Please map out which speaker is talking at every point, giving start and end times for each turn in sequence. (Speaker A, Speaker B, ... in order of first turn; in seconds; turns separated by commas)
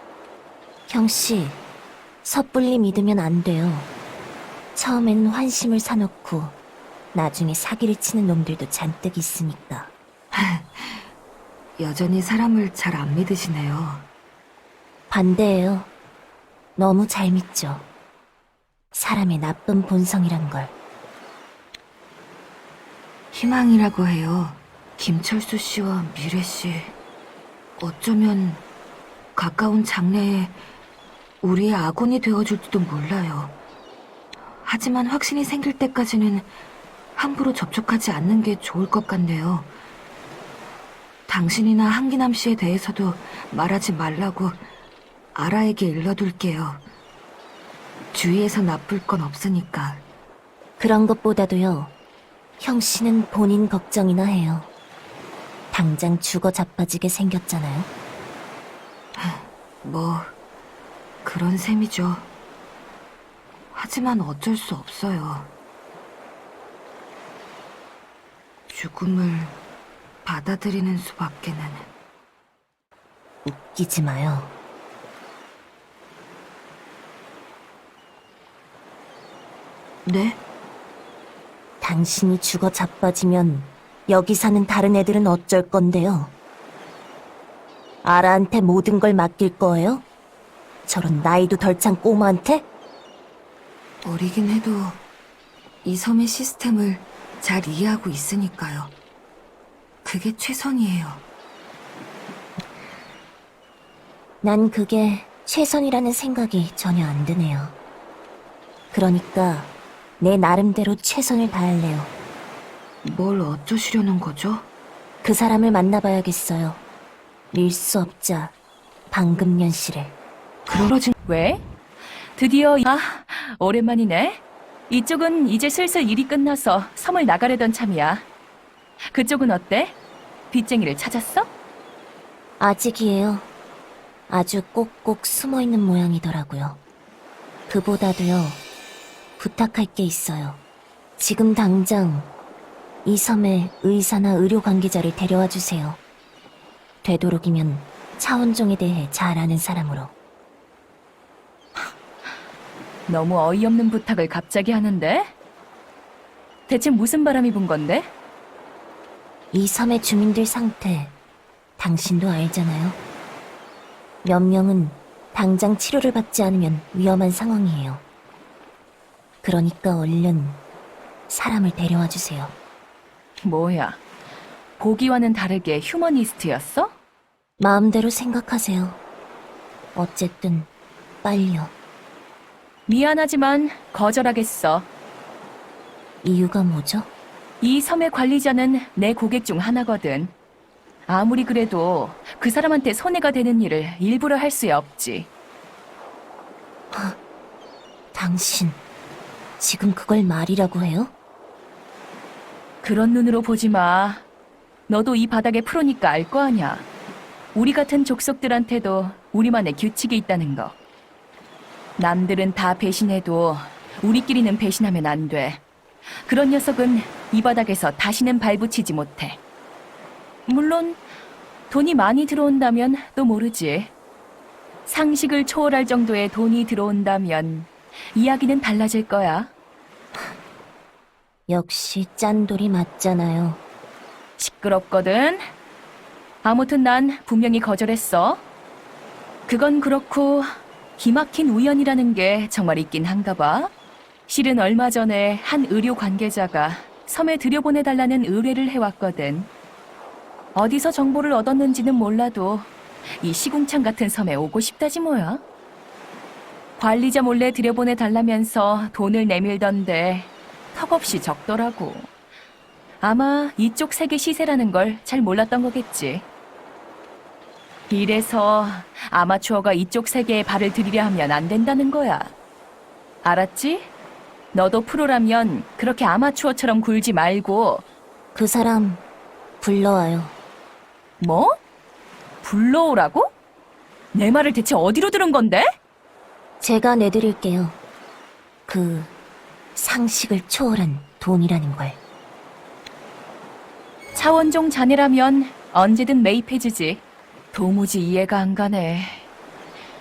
Speaker A: 0.9-1.6, Speaker A: 2.2-3.9, Speaker A: 4.7-6.6, Speaker A: 7.1-9.9, Speaker B: 10.3-11.0, Speaker B: 11.8-14.1, Speaker A: 15.1-15.9, Speaker A: 16.8-17.9, Speaker A: 18.9-20.7, Speaker B: 23.3-26.9, Speaker B: 27.8-28.6, Speaker B: 29.4-30.5, Speaker B: 31.4-33.5, Speaker B: 34.6-36.5, Speaker B: 37.1-39.7, Speaker B: 41.3-44.6, Speaker B: 45.3-46.8, Speaker B: 48.1-50.0, Speaker A: 50.8-51.9, Speaker A: 52.6-54.7, Speaker A: 55.7-57.9, Speaker B: 59.2-60.3, Speaker B: 61.2-62.3, Speaker B: 63.7-65.5, Speaker B: 68.7-69.6, Speaker B: 70.2-71.9, Speaker A: 73.4-74.5, Speaker B: 80.0-80.4, Speaker A: 81.8-86.3, Speaker A: 88.0-90.0, Speaker A: 90.8-92.7, Speaker B: 94.0-95.0, Speaker B: 95.8-98.9, Speaker B: 100.0-101.2, Speaker A: 104.4-107.8, Speaker A: 108.9-112.1, Speaker B: 113.0-114.7, Speaker A: 115.2-116.8, Speaker A: 117.5-118.5, Speaker A: 119.1-120.2, Speaker B: 120.7-121.1, Speaker C: 121.2-121.6, Speaker C: 122.3-128.2, Speaker C: 129.1-129.9, Speaker C: 130.5-131.5, Speaker A: 132.6-133.5, Speaker A: 134.3-136.8, Speaker A: 137.7-138.6, Speaker A: 139.4-140.6, Speaker A: 141.2-142.3, Speaker A: 143.0-146.0, Speaker A: 147.0-150.1, Speaker C: 153.1-155.3, Speaker C: 156.7-158.1, Speaker A: 159.5-161.2, Speaker A: 161.8-163.0, Speaker A: 164.2-168.0, Speaker A: 169.4-170.6, Speaker A: 171.3-172.6, Speaker C: 173.4-174.0, Speaker C: 174.8-176.9, Speaker A: 177.6-179.0, Speaker A: 179.9-180.7, Speaker A: 181.2-181.7, Speaker C: 182.9-184.9, Speaker A: 186.2-187.1, Speaker C: 187.6-190.3, Speaker C: 191.1-195.3, Speaker A: 196.9-197.2, Speaker A: 198.1-198.8, Speaker A: 199.6-201.1, Speaker C: 202.8-204.2, Speaker C: 204.9-206.8, Speaker C: 207.5-210.7, Speaker C: 212.0-215.6, Speaker C: 216.2-219.4, Speaker C: 220.5-221.0, Speaker C: 221.7-223.9, Speaker C: 224.8-229.5, Speaker A: 231.5-233.6, Speaker C: 234.4-235.4, Speaker C: 236.4-238.4, Speaker C: 239.5-243.7, Speaker C: 244.3-249.5, Speaker C: 250.5-252.7, Speaker C: 253.2-255.4, Speaker C: 256.8-262.1, Speaker C: 263.0-266.2, Speaker C: 267.9-272.3, Speaker C: 273.2-273.9, Speaker C: 274.5-277.8, Speaker A: 278.3-279.0, Speaker A: 279.6-280.4, Speaker C: 281.2-281.5, Speaker C: 282.4-283.3, Speaker C: 284.1-285.7, Speaker A: 286.6-287.8, Speaker A: 288.7-289.1, Speaker A: 289.7-292.0, Speaker C: 294.1-297.0, Speaker C: 297.5-299.2